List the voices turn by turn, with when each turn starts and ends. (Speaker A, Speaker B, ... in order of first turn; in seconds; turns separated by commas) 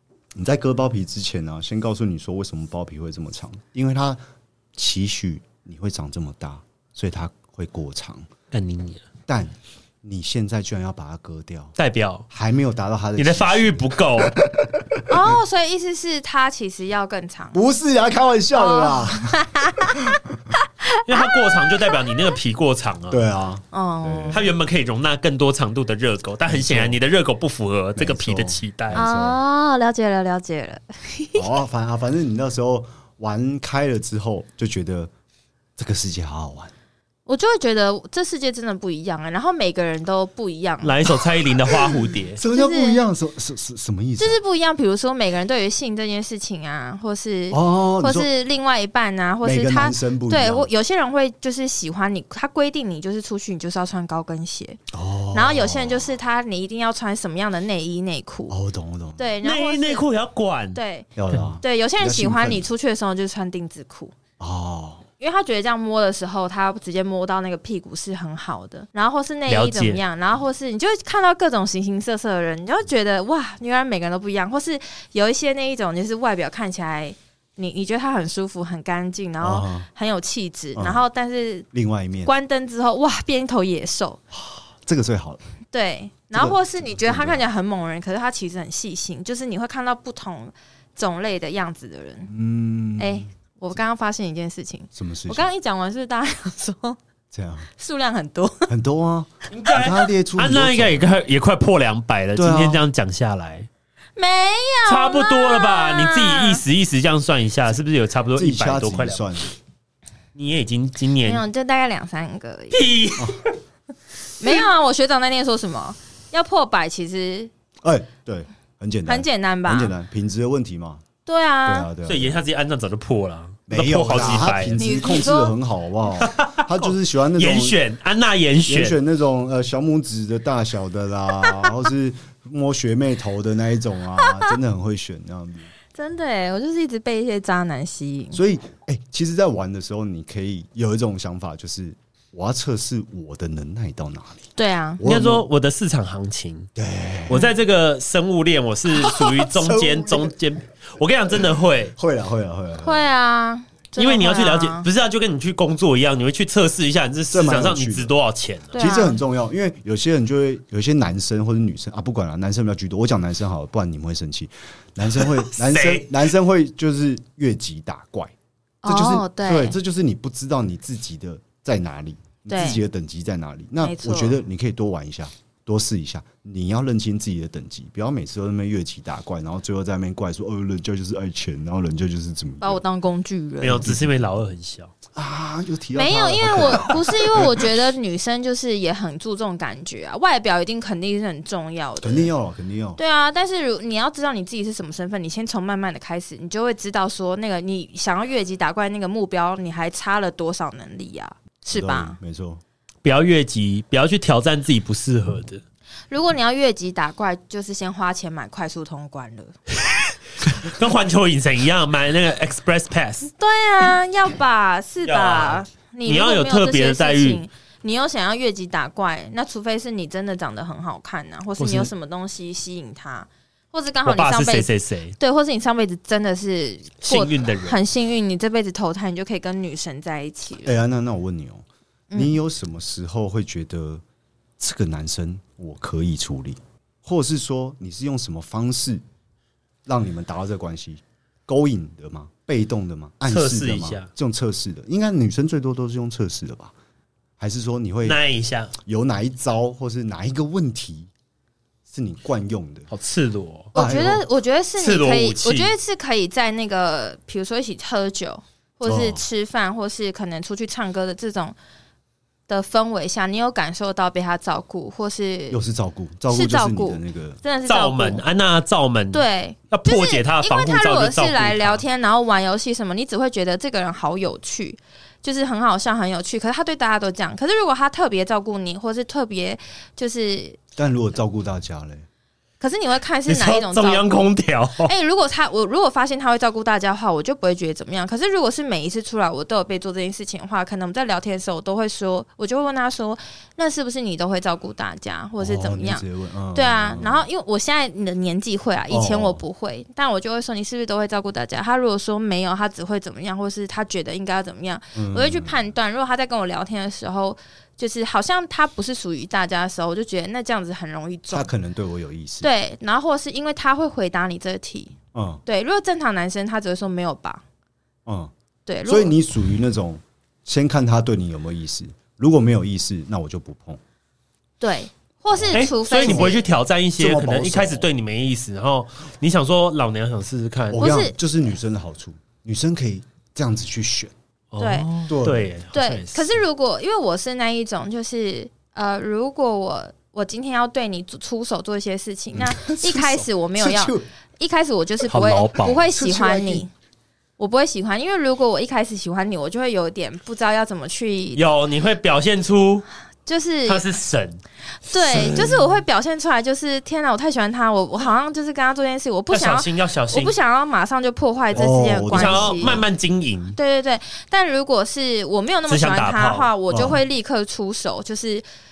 Speaker A: 0.3-4.2, Speaker A: 4.8-8.3, Speaker B: 8.5-9.0, Speaker A: 9.3-11.8, Speaker B: 11.8-12.3, Speaker A: 12.3-15.3, Speaker B: 13.2-14.4, Speaker C: 15.1-17.6, Speaker A: 17.5-20.4, Speaker C: 18.5-22.3, Speaker B: 21.1-23.2, Speaker A: 23.1-24.5, Speaker C: 23.7-24.4, Speaker B: 24.3-29.1, Speaker A: 26.5-27.0, Speaker A: 28.0-29.4, Speaker C: 28.9-31.4, Speaker A: 31.4-35.1, Speaker A: 35.8-36.7, Speaker C: 37.3-41.0, Speaker B: 40.8-42.4, Speaker A: 41.8-44.4, Speaker C: 42.5-43.0, Speaker C: 44.2-54.8, Speaker A: 47.5-48.3, Speaker A: 49.4-50.7, Speaker A: 54.9-56.1, Speaker C: 55.3-58.6, Speaker A: 58.5-59.3, Speaker C: 59.2-60.1, Speaker B: 59.4-60.8, Speaker C: 60.7-61.1, Speaker A: 61.2-62.7, Speaker C: 61.6-64.2, Speaker A: 64.4-65.0, Speaker C: 65.2-81.7, Speaker B: 69.5-70.0, Speaker A: 79.4-79.9, Speaker A: 80.8-81.0, Speaker A: 81.7-82.3, Speaker C: 82.2-84.2, Speaker A: 84.3-85.4, Speaker C: 85.7-92.3, Speaker A: 86.3-87.5, Speaker A: 92.3-93.3, Speaker C: 93.0-97.0, Speaker A: 94.9-95.5, Speaker A: 97.3-97.7, Speaker C: 97.8-98.7, Speaker A: 98.7-101.1, Speaker B: 99.5-103.7, Speaker A: 102.4-102.8, Speaker C: 104.2-106.6, Speaker B: 104.9-109.3, Speaker A: 108.3-109.5, Speaker B: 110.3-111.4, Speaker C: 111.2-112.8, Speaker B: 112.7-113.5, Speaker C: 114.4-117.5, Speaker A: 117.8-121.0, Speaker C: 119.1-119.9, Speaker C: 121.3-121.9, Speaker A: 121.7-122.4, Speaker B: 122.1-124.8, Speaker A: 123.7-127.8, Speaker C: 124.8-125.5, Speaker B: 126.2-129.0, Speaker A: 128.7-135.7, Speaker C: 134.2-134.5, Speaker C: 135.9-138.4, Speaker A: 138.3-145.5, Speaker C: 144.6-145.0, Speaker B: 145.0-146.7, Speaker A: 146.8-147.5, Speaker B: 147.3-151.9, Speaker A: 149.0-150.4, Speaker A: 152.0-153.1, Speaker C: 152.8-154.9, Speaker B: 154.0-158.7, Speaker A: 157.3-158.1, Speaker C: 158.7-159.2, Speaker A: 158.8-168.3, Speaker B: 165.2-166.1, Speaker C: 168.8-169.8, Speaker A: 168.8-182.8, Speaker C: 172.5-172.8, Speaker C: 173.8-174.4, Speaker C: 182.6-184.1, Speaker B: 183.6-184.9, Speaker A: 185.1-187.7, Speaker C: 185.9-192.3, Speaker A: 192.0-193.0, Speaker C: 193.0-202.2, Speaker A: 201.7-202.6, Speaker B: 203.0-205.6, Speaker C: 206.1-209.6, Speaker B: 209.9-213.3, Speaker C: 213.3-230.7, Speaker B: 215.1-217.4, Speaker B: 221.6-221.9, Speaker B: 224.1-225.2, Speaker B: 227.0-227.8, Speaker A: 230.6-234.0, Speaker C: 232.1-232.4, Speaker A: 234.6-239.0, Speaker A: 239.9-246.7, Speaker B: 243.3-244.1, Speaker A: 247.4-248.2, Speaker B: 248.1-248.7, Speaker A: 248.8-251.1, Speaker A: 251.9-252.9, Speaker B: 252.9-253.7, Speaker C: 253.7-261.6, Speaker A: 253.8-254.2, Speaker B: 254.8-255.8, Speaker A: 258.9-259.2, Speaker C: 262.5-265.6, Speaker A: 265.5-267.4, Speaker C: 266.3-268.2, Speaker B: 267.7-271.8, Speaker C: 269.1-280.6, Speaker A: 280.8-282.1, Speaker C: 282.6-284.2, Speaker B: 283.3-284.9, Speaker C: 284.9-311.5, Speaker A: 295.4-297.3, Speaker A: 298.9-299.4, Speaker A: 304.9-305.6, Speaker A: 311.3-312.5, Speaker C: 312.4-314.9, Speaker A: 315.1-315.4, Speaker C: 315.5-317.4, Speaker A: 318.1-318.3, Speaker C: 318.7-319.2, Speaker A: 318.9-323.8, Speaker C: 324.6-326.5, Speaker A: 325.3-326.4, Speaker B: 325.5-330.9, Speaker A: 327.0-327.9, Speaker A: 330.7-334.1, Speaker C: 330.8-331.2, Speaker B: 334.5-336.4, Speaker C: 334.6-334.9, Speaker A: 335.1-335.5, Speaker C: 335.7-346.7, Speaker A: 342.3-344.1, Speaker B: 345.1-345.9, Speaker A: 345.9-346.6, Speaker C: 347.4-351.4, Speaker B: 351.4-352.9, Speaker C: 353.3-353.9, Speaker B: 353.7-354.4, Speaker C: 354.8-362.8, Speaker B: 355.0-355.6, Speaker B: 359.3-360.4, Speaker A: 361.5-362.8, Speaker B: 362.1-363.6, Speaker C: 363.6-368.4, Speaker B: 365.7-366.5, Speaker A: 366.7-367.0